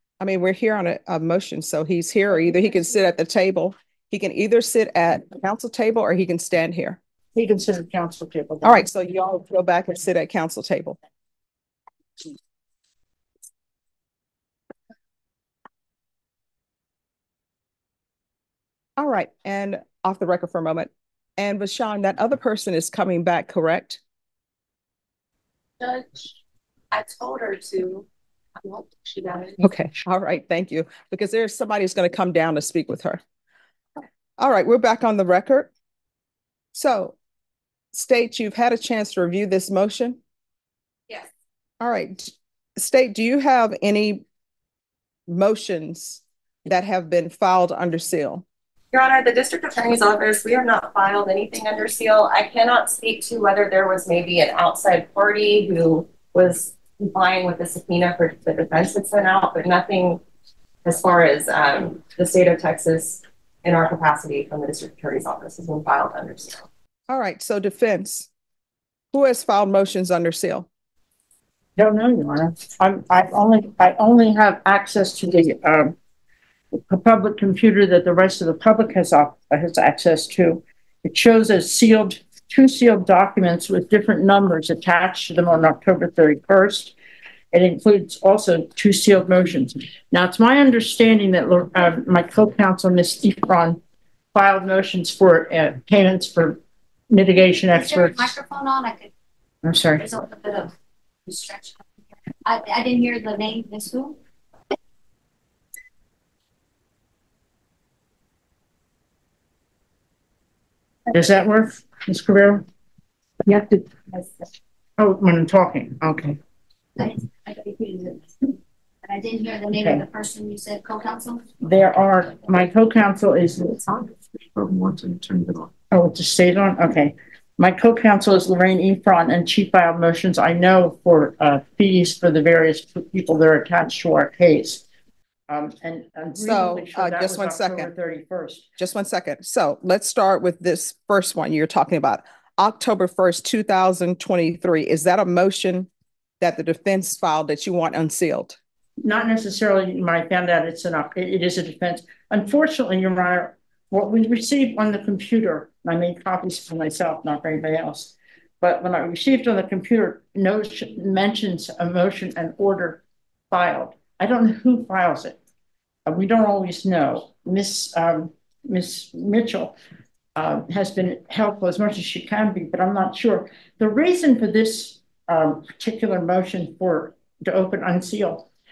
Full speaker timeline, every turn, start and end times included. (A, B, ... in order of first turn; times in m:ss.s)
0:00.2-0:07.0 A
0:07.4-0:08.8 B
0:08.6-0:11.0 A
0:19.0-0:24.0 A
0:26.9-0:28.0 C
0:27.4-0:28.0 D
0:28.6-0:29.6 C
0:28.8-0:29.2 D
0:29.6-0:33.2 A
0:34.4-0:35.7 A
0:36.7-0:37.2 A
0:37.9-0:40.2 A
0:41.8-0:44.2 A
0:45.3-0:48.4 A
0:48.9-1:00.2 C
1:00.8-1:06.6 C
1:07.1-1:08.3 A
1:09.1-1:10.7 A
1:11.8-1:16.0 B
1:16.7-1:27.0 B
1:27.5-1:33.8 B
1:34.3-1:36.6 B
1:37.1-1:38.3 B
1:37.7-1:39.1 D
1:39.6-1:40.0 B
1:40.0-1:40.7 D
1:41.3-1:41.9 D
1:42.4-1:44.2 D
1:51.1-1:52.6 B
1:53.4-1:54.2 B
1:55.0-1:56.4 B
1:57.0-2:01.6 D
1:59.7-2:00.0 B
2:01.6-2:04.0 B
2:04.6-2:14.8 B
2:15.5-2:18.7 B
2:16.4-2:17.9 A
2:18.8-2:25.9 A
2:26.4-2:28.6 A
2:29.0-2:45.4 B
2:46.1-2:49.8 B
2:50.4-2:58.5 B